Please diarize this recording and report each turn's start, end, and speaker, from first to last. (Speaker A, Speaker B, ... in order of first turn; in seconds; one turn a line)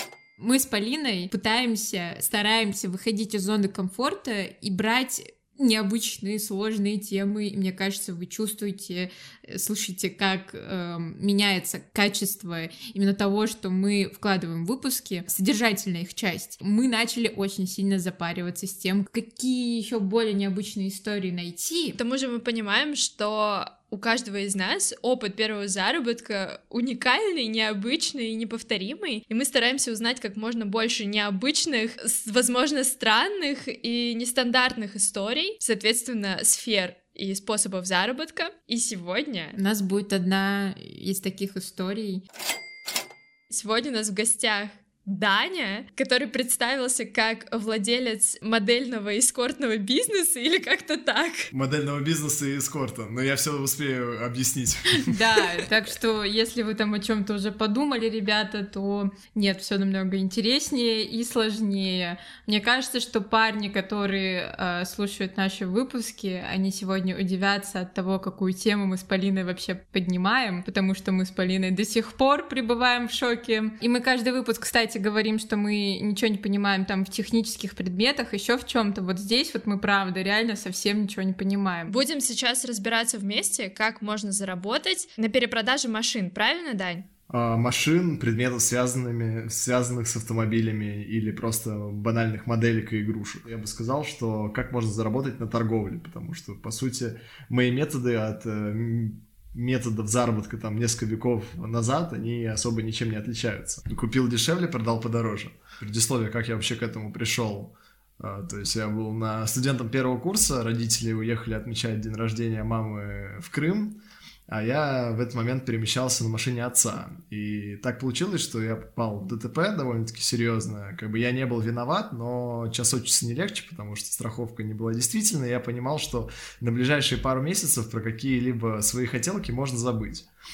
Speaker A: 0.4-22.0
Speaker B: 22.0-39.6
Speaker A: 39.6-42.2
Speaker B: 43.5-51.5
Speaker C: 51.5-55.4
Speaker A: 55.0-81.9
Speaker B: 81.9-87.1
Speaker C: 87.3-130.2